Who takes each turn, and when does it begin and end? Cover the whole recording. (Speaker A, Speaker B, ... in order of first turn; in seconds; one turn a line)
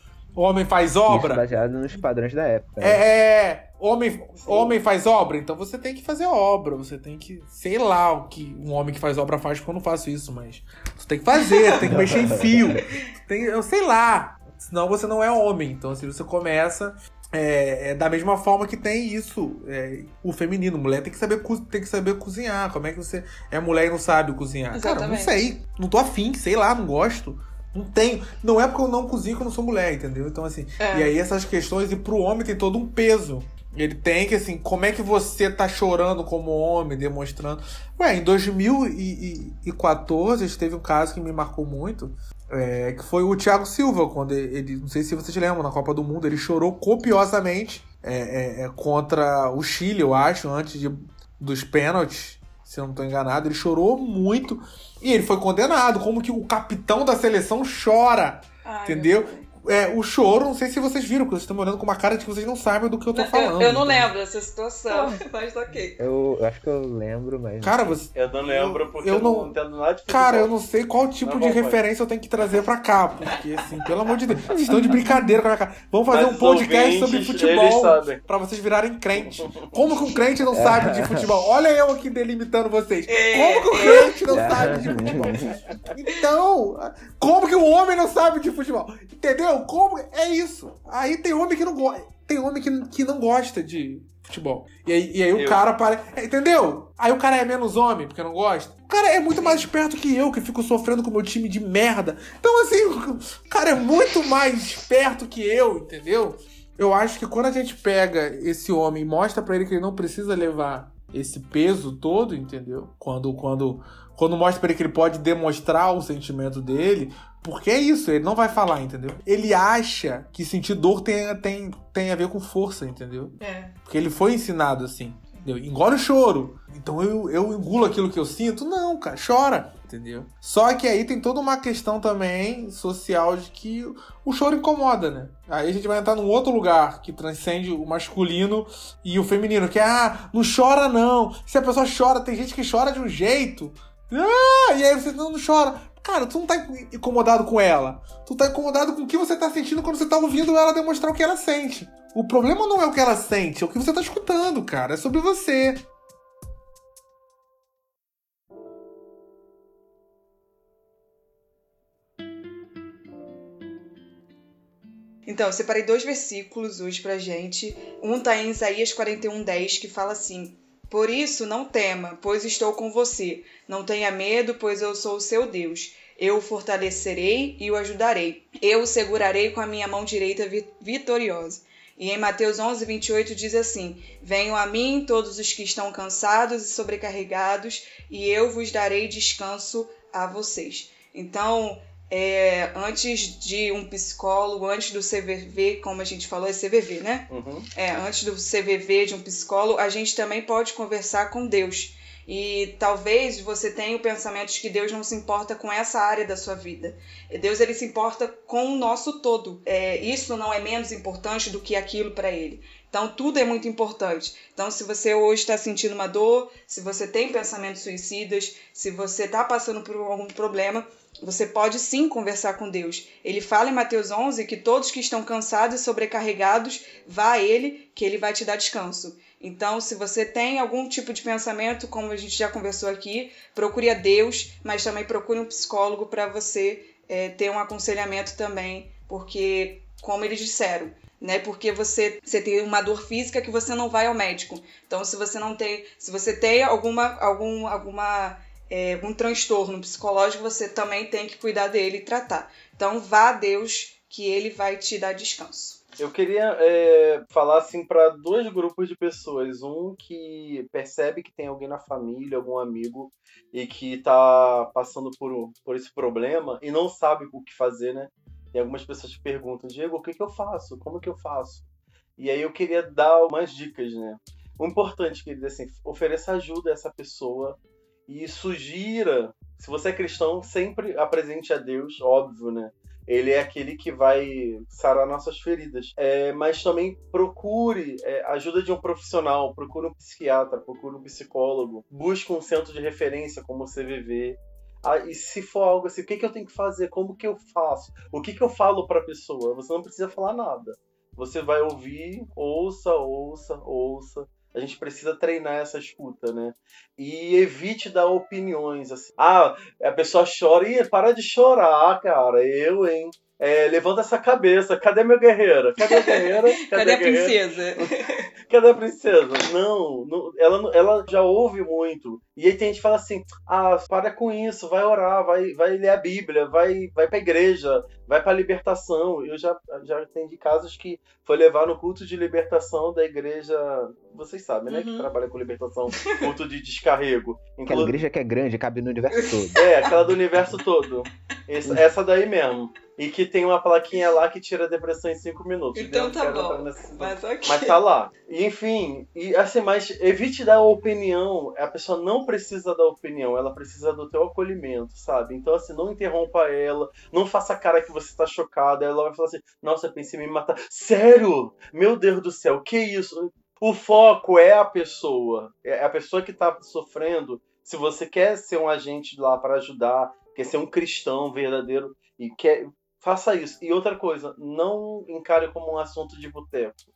Speaker A: 0.4-2.0
Speaker B: 1.1-3.0
Speaker A: 2.8-64.1
Speaker C: 4.4-4.8
Speaker B: 11.8-12.8
Speaker D: 24.7-25.5
Speaker D: 30.8-31.1
Speaker D: 58.6-59.5
Speaker D: 63.1-66.0
Speaker B: 64.9-65.2
Speaker B: 66.0-68.0
Speaker A: 67.6-69.5
Speaker C: 68.2-70.5
Speaker A: 70.1-155.8
Speaker C: 71.2-71.8
Speaker C: 76.1-78.2
Speaker C: 79.2-79.7
Speaker B: 80.5-81.3
Speaker D: 83.1-84.2
Speaker B: 84.3-85.6
Speaker C: 95.3-95.6
Speaker D: 99.4-99.7
Speaker D: 123.4-123.8
Speaker D: 165.3-255.8
Speaker C: 197.3-197.7
Speaker C: 256.0-271.6
Speaker C: 272.2-317.9
Speaker D: 315.8-318.3
Speaker C: 318.5-337.9
Speaker D: 334.7-335.1
Speaker D: 336.0-336.2
Speaker B: 337.6-340.6
Speaker D: 339.2-339.8
Speaker C: 339.6-376.8
Speaker D: 345.8-347.8